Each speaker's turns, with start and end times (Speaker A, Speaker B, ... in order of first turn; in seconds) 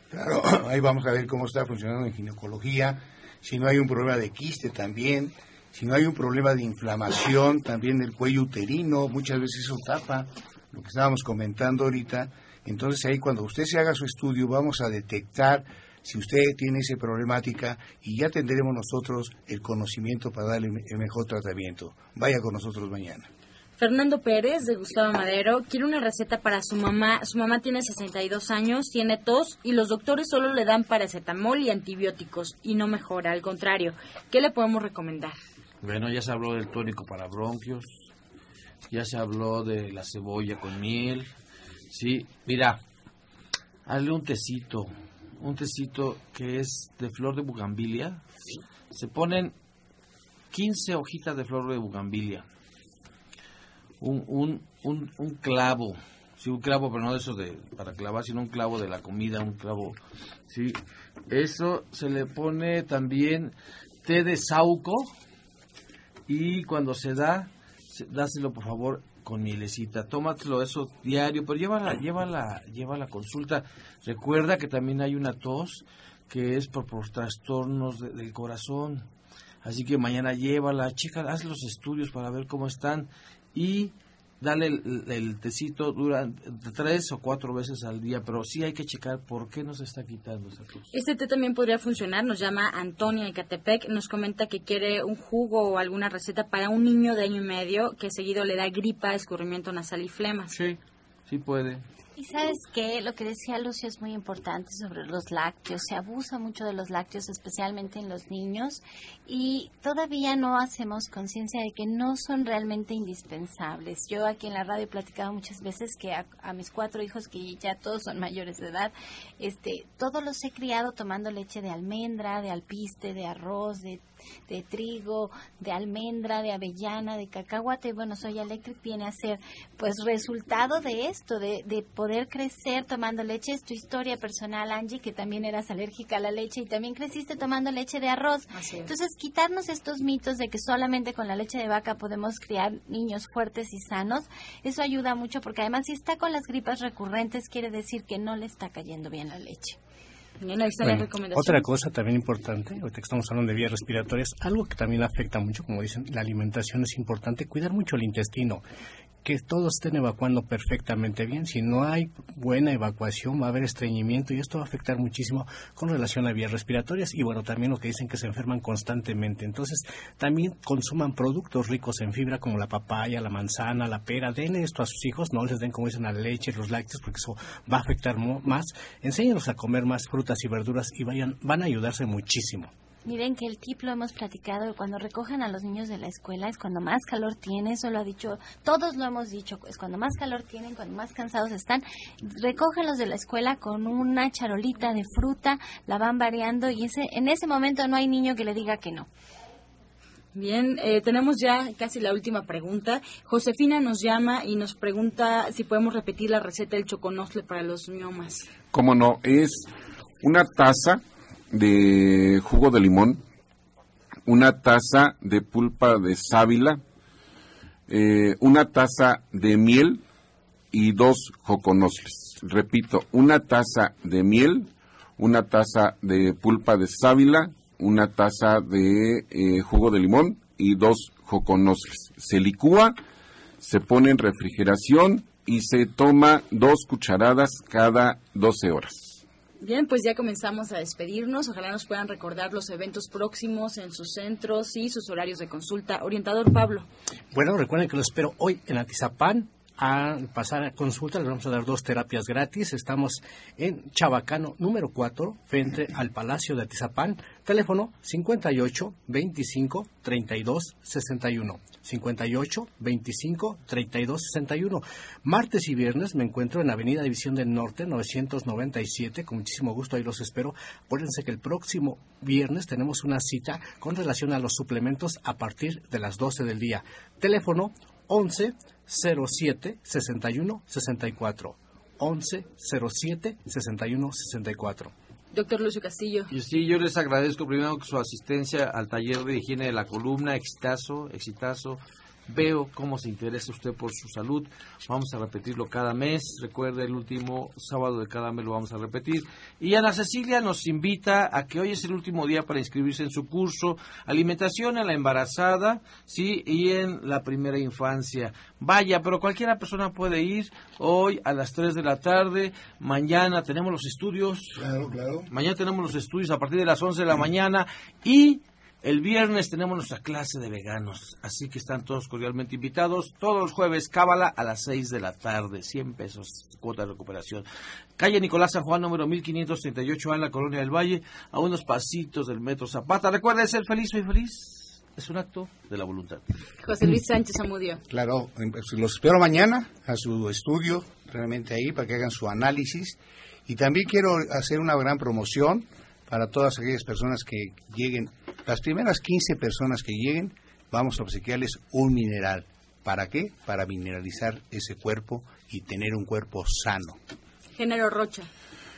Speaker A: 0.1-23.3, 314.6-315.3, 337.9-357.0
Speaker B: 23.8-35.4, 90.9-100.5, 138.5-138.9, 150.4-151.7, 200.3-208.5, 239.6-246.9, 285.3-286.3, 336.6-337.8, 357.6-358.3
Speaker C: 35.8-38.1, 38.9-41.3, 41.9-42.8, 43.9-48.2, 48.9-49.5, 50.5-52.5, 54.0-65.1, 66.3-79.1, 79.6-90.9, 100.5-101.8, 286.3-314.6, 315.3-327.4, 328.0-336.2
Speaker D: 102.2-149.8, 183.0-199.1
Speaker E: 150.8-158.6, 159.2-182.7, 247.3-284.9
Speaker F: 208.7-209.7, 210.2-213.2, 214.2-216.8, 217.9-220.0, 220.7-232.9, 233.6-239.2